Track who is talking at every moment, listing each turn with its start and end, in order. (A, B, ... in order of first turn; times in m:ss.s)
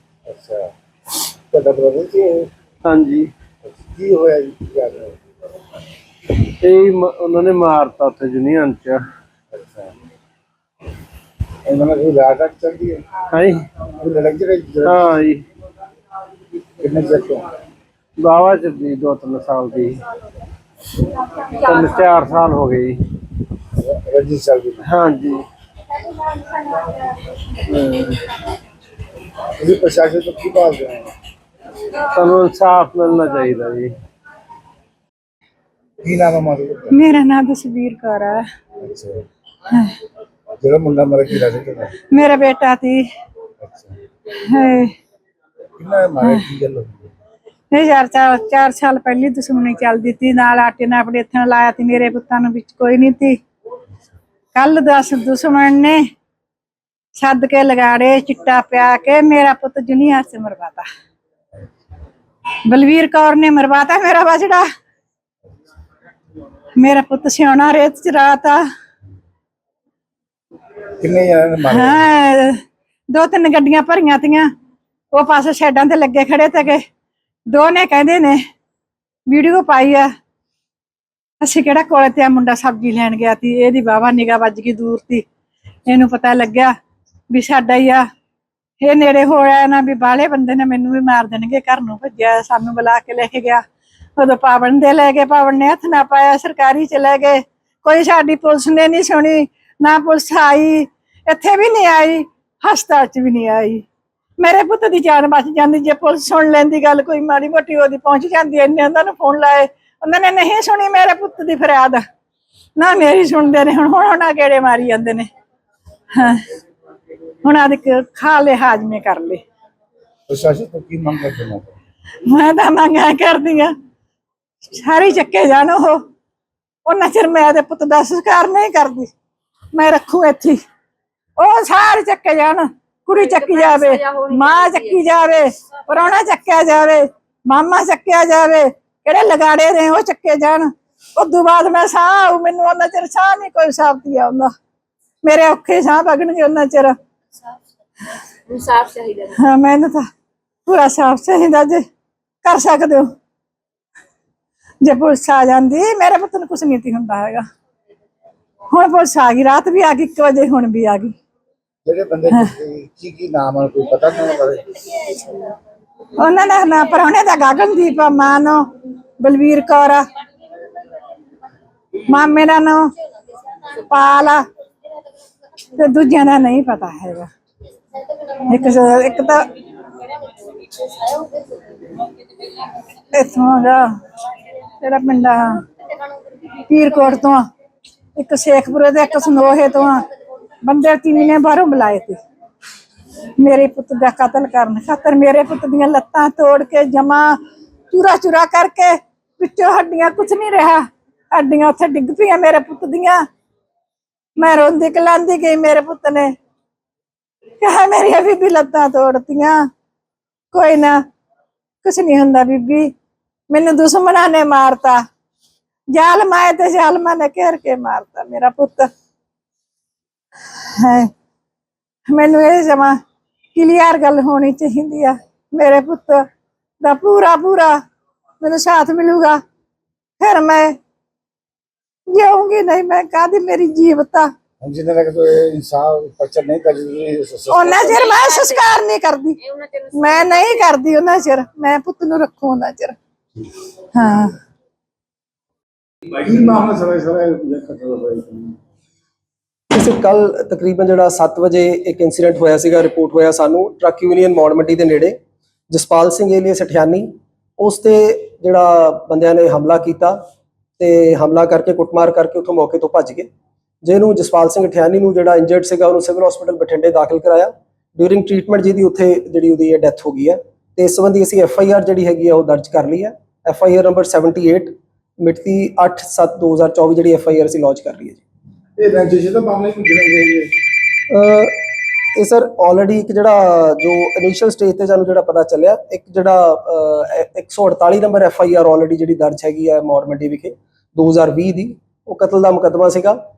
0:00.3-0:00.7 A
0:01.5-0:02.5 A
0:02.8-0:03.3 B
0:03.6-0:05.2 A
0:06.6-0:09.0 B
0:09.5-0:09.9 A
0:11.7-0:13.0 A
0:13.3-0:13.6 B
0:14.0-0:15.1 A
0:14.8-0:15.4 B
0:16.8-0:17.4 A
0:18.2-0:20.0 B
0:21.5-0:23.0 B
0:23.8-0:24.8 A
0:24.8-0:25.5 B
0:27.7-0:28.2 B
0:29.6-0:31.1 A
0:32.1-0:33.9 B
0:36.0-0:37.0 A
0:36.9-0:38.4 C
0:38.8-0:39.2 A
0:40.6-0:41.9 A
0:42.1-0:43.0 C
0:43.6-0:44.0 A
0:44.5-0:44.9 C
0:45.8-0:47.1 A
0:47.7-0:53.4 C
0:54.5-0:56.0 C
0:57.2-1:00.9 C
1:02.7-1:04.6 C
1:06.8-1:08.6 C
1:11.0-1:12.0 A
1:11.7-1:12.6 C
1:13.1-1:14.5 C
1:15.1-1:16.8 C
1:17.5-1:18.4 C
1:19.3-1:20.1 C
1:21.4-1:25.2 C
1:25.9-1:26.7 C
1:27.3-1:28.0 C
1:28.8-1:33.6 C
1:34.2-1:43.8 C
1:44.4-1:52.0 C
1:52.8-1:55.3 C
1:56.2-1:56.4 C
1:57.4-1:59.4 C
2:00.3-2:01.8 A
2:02.3-2:03.7 C
2:04.6-2:06.0 C
2:06.9-2:09.1 C
2:09.7-2:10.6 C
2:11.4-2:24.5 C
2:13.2-2:15.0 D
2:25.2-2:26.9 C
2:28.5-2:29.4 D
2:29.4-2:30.1 C
2:30.7-2:31.8 C
2:32.4-2:33.1 C
2:34.8-2:37.4 C
2:38.7-2:41.1 C
2:41.8-2:44.7 A
2:46.2-2:48.6 C
2:49.2-2:50.0 C
2:52.1-2:52.9 C
2:53.7-2:54.4 C
2:55.8-2:57.3 C
2:58.5-2:59.5 C
3:03.1-3:03.8 C
3:04.8-3:05.6 C
3:06.7-3:07.4 C
3:08.2-3:10.0 C
3:10.6-3:12.2 C
3:13.4-3:17.4 C
3:17.9-3:23.2 C
3:24.4-3:26.3 C
3:27.6-3:29.6 C
3:30.5-3:31.0 C
3:31.8-3:32.9 C
3:33.5-3:35.0 C
3:35.9-3:38.9 C
3:40.6-3:41.1 C
3:42.1-3:43.0 C
3:43.5-3:46.2 C
3:46.8-3:47.8 C
3:48.4-3:49.4 C
3:50.2-3:50.7 C
3:52.1-3:54.3 C
3:54.6-3:58.0 A
3:57.5-3:59.4 C
3:58.0-3:58.6 D
3:59.4-4:00.5 D
4:00.0-4:03.0 C
4:03.9-4:04.4 C
4:06.1-4:08.6 A
4:09.7-4:15.2 E
4:15.7-4:20.2 E
4:20.8-4:23.3 E
4:23.8-4:38.2 E
4:38.8-4:40.5 A
4:41.1-4:41.6 E
4:42.2-4:53.2 E